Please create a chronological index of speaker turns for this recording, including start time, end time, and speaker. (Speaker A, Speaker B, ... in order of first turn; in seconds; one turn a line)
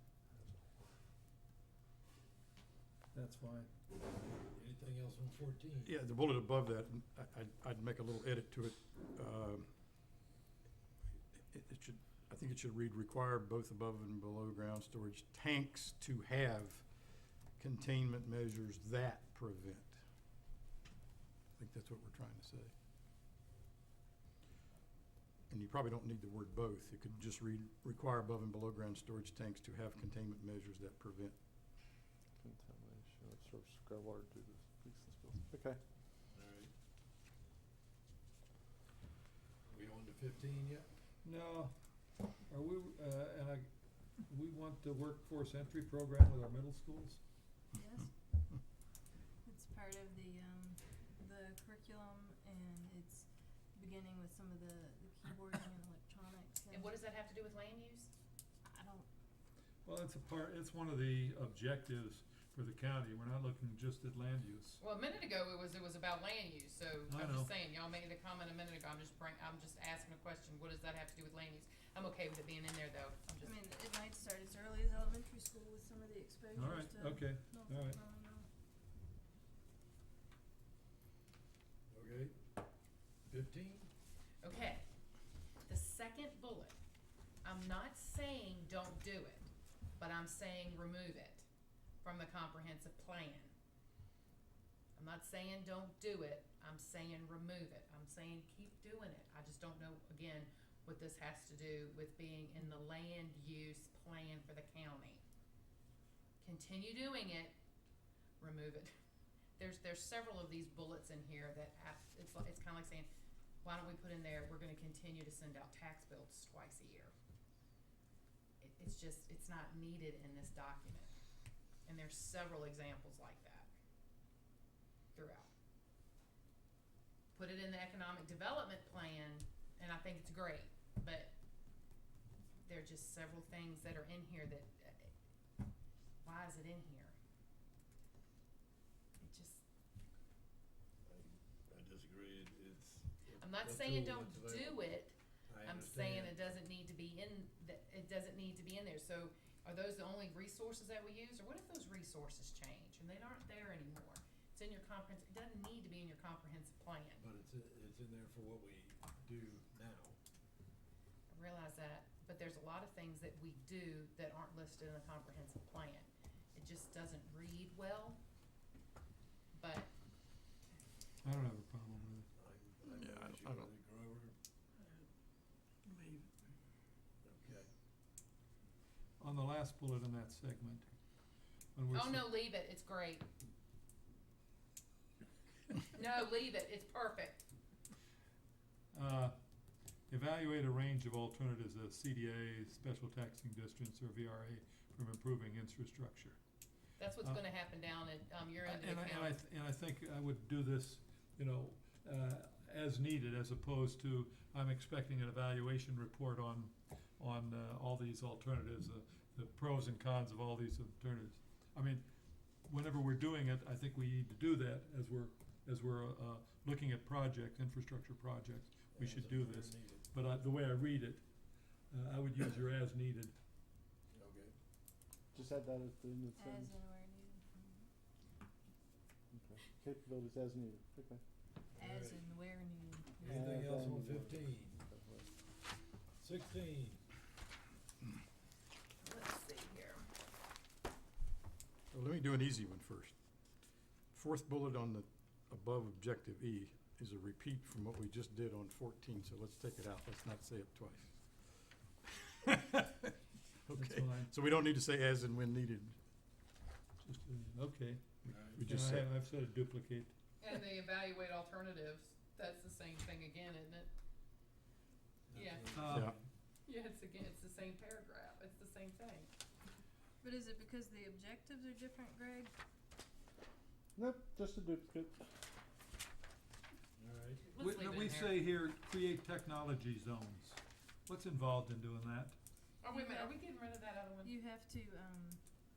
Speaker A: 0.3-0.9
Speaker B: 3.1-3.7
Speaker C: 4.3-5.9
Speaker D: 5.8-9.7
Speaker D: 11.4-16.9
Speaker D: 17.6-20.0
Speaker D: 21.6-22.7
Speaker D: 25.5-31.3
Speaker A: 32.4-35.8
Speaker C: 36.3-36.7
Speaker C: 39.7-40.9
Speaker B: 41.2-41.7
Speaker B: 42.5-43.7
Speaker B: 44.3-47.2
Speaker E: 47.7-48.1
Speaker E: 49.4-57.0
Speaker F: 56.7-58.1
Speaker E: 58.7-59.1
Speaker B: 59.8-64.8
Speaker F: 64.8-73.5
Speaker B: 67.1-67.5
Speaker E: 73.4-78.5
Speaker B: 76.5-78.0
Speaker C: 81.9-82.4
Speaker C: 83.3-83.9
Speaker F: 84.4-84.8
Speaker F: 85.7-86.7
Speaker F: 87.4-91.5
Speaker F: 92.0-93.5
Speaker F: 95.0-105.2
Speaker F: 106.4-107.5
Speaker F: 108.4-108.9
Speaker F: 109.6-113.1
Speaker F: 113.6-117.1
Speaker F: 118.6-121.1
Speaker F: 121.8-123.7
Speaker F: 125.1-125.5
Speaker F: 127.3-131.3
Speaker F: 132.7-135.1
Speaker F: 136.2-137.1
Speaker F: 139.2-139.6
Speaker C: 141.1-144.9
Speaker F: 143.4-157.2
Speaker C: 145.5-146.4
Speaker C: 157.2-160.2
Speaker F: 161.3-168.2
Speaker F: 169.6-169.9
Speaker B: 171.2-172.2
Speaker C: 172.4-174.3
Speaker D: 172.9-173.7
Speaker B: 175.8-176.3
Speaker C: 177.2-177.7
Speaker B: 179.2-180.9
Speaker B: 181.8-182.3
Speaker F: 181.9-183.2
Speaker F: 185.9-187.4
Speaker B: 188.9-189.3
Speaker B: 190.1-196.4
Speaker F: 197.0-199.4
Speaker B: 198.6-212.1
Speaker B: 212.6-221.2
Speaker C: 218.9-220.1
Speaker B: 221.9-223.3
Speaker C: 224.1-224.5
Speaker A: 225.3-226.8
Speaker E: 226.3-227.9
Speaker A: 229.3-231.2
Speaker C: 231.8-232.2
Speaker E: 231.8-233.5
Speaker C: 233.2-234.8
Speaker A: 233.3-235.3
Speaker C: 236.2-237.0
Speaker E: 239.0-240.1
Speaker D: 241.9-243.2
Speaker D: 244.1-251.3
Speaker D: 252.4-253.1
Speaker D: 253.7-255.9
Speaker B: 253.7-254.3
Speaker B: 257.0-260.1
Speaker C: 258.3-258.6
Speaker D: 258.5-259.1
Speaker F: 260.4-263.9
Speaker C: 265.3-266.2
Speaker F: 265.3-265.7
Speaker B: 265.7-266.1
Speaker D: 265.9-266.2
Speaker F: 266.6-269.3
Speaker E: 270.2-272.5
Speaker A: 273.9-275.2
Speaker C: 277.0-277.4
Speaker F: 277.5-278.4
Speaker B: 277.6-282.4
Speaker F: 282.8-284.3
Speaker E: 282.9-283.3
Speaker E: 284.2-285.4